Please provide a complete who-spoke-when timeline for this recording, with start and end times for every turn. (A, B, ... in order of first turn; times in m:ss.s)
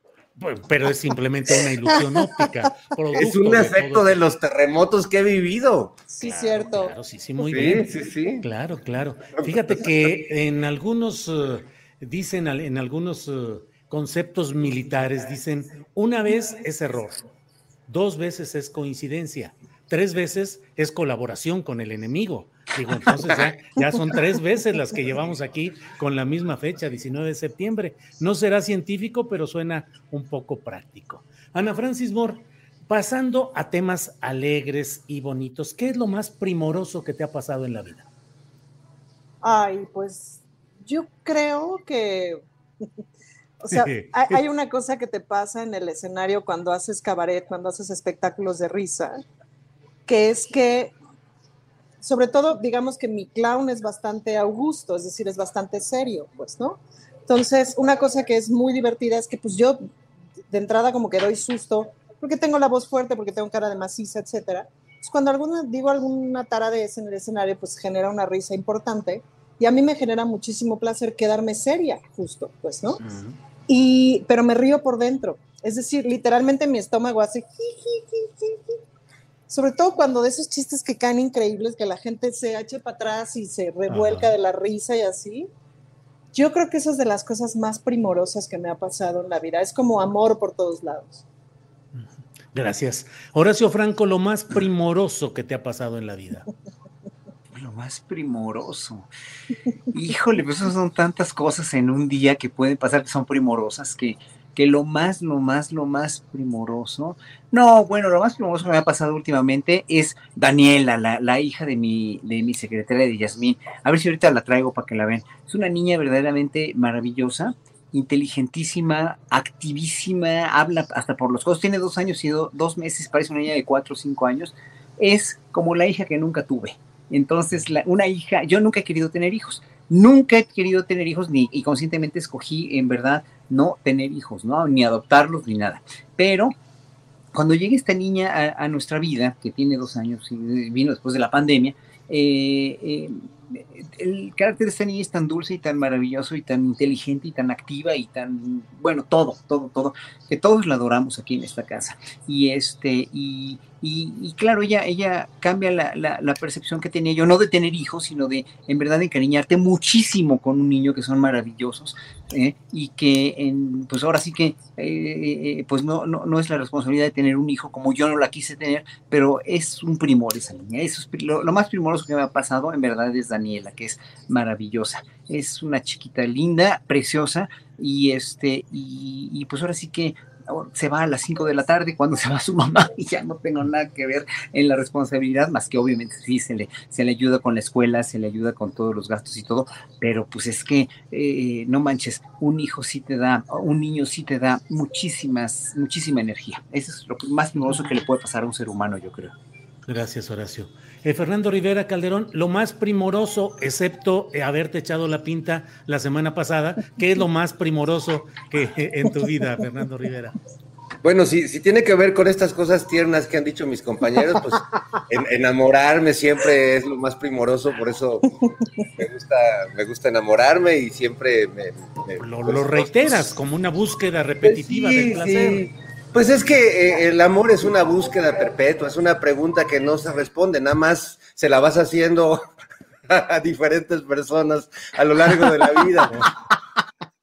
0:00.4-0:04.2 A
0:03.1-0:06.0 B
0:06.1-0:06.9 C
0:06.2-0:17.2 A
0:07.4-0:08.4 B
0:09.4-0:09.8 B
0:17.9-0:38.1 A
0:39.4-0:42.4 C
0:43.6-0:49.2 C
0:43.7-0:44.4 A
0:50.1-0:50.9 C
0:52.0-0:59.8 C
1:00.5-1:13.0 C
1:13.0-1:13.4 A
1:13.7-1:18.8 C
1:19.5-1:25.5 C
1:23.9-1:24.3 A
1:26.3-1:31.2 C
1:32.0-1:36.5 A
1:37.5-1:39.1 D
1:39.9-2:16.6 D
2:17.3-3:19.3 D
3:19.9-3:30.4 A
3:31.0-3:38.3 B
3:39.0-3:42.9 B
3:42.2-3:45.6 A
3:44.4-3:52.4 B
3:53.1-3:56.3 B